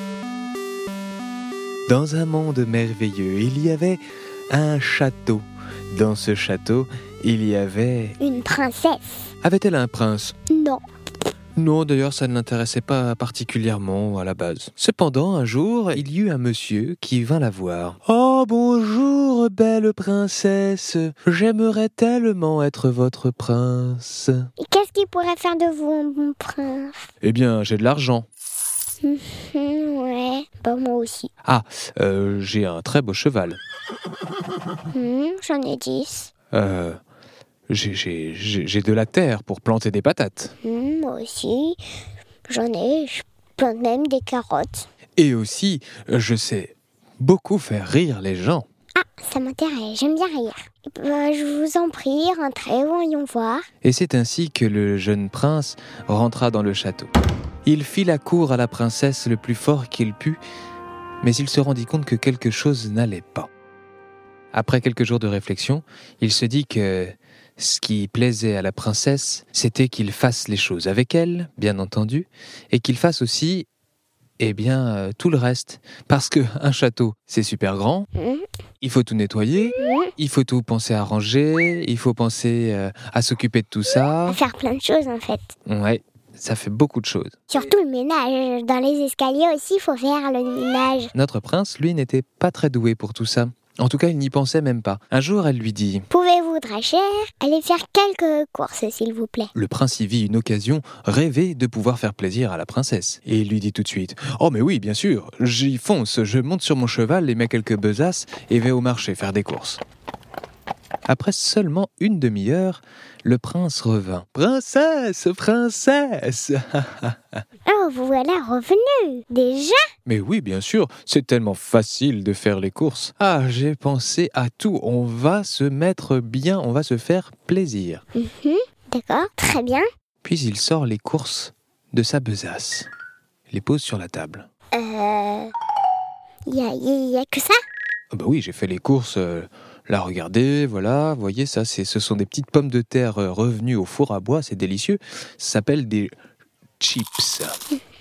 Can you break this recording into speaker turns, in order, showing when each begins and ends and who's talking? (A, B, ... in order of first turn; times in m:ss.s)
0:01.9-0:08.2 A
0:08.2-0:09.3 B
0:09.4-0:10.3 A
0:10.5-0:10.8 B
0:11.6-0:24.5 A
0:24.6-0:27.1 B
0:27.2-0:28.3 A
0:29.0-0:31.3 B
0:31.4-0:33.6 A
0:34.9-0:36.3 B
0:36.5-0:37.0 A
0:37.7-0:40.6 A
0:40.6-0:41.8 B
0:42.5-0:44.9 B
0:45.2-0:48.7 A
0:49.0-0:53.6 B
0:53.8-0:57.1 A
0:57.6-1:00.4 A
1:01.2-1:03.5 A
1:04.5-1:13.7 A
1:14.4-1:18.1 A
1:18.2-1:18.5 B
1:18.8-1:24.4 A
1:19.8-1:20.1 B
1:24.3-1:25.5 B
1:25.7-1:27.4 A
1:27.5-1:31.1 B
1:31.1-1:36.1 A
1:36.1-1:39.5 B
1:39.5-1:49.8 A
1:51.1-1:57.4 A
1:57.7-1:59.8 B
2:00.1-2:08.0 A
2:08.2-2:09.9 B
2:10.2-2:12.9 A
2:13.5-2:14.5 A
2:14.7-2:15.5 B
2:16.5-2:17.6 B
2:18.1-2:26.1 A
2:26.8-2:27.6 A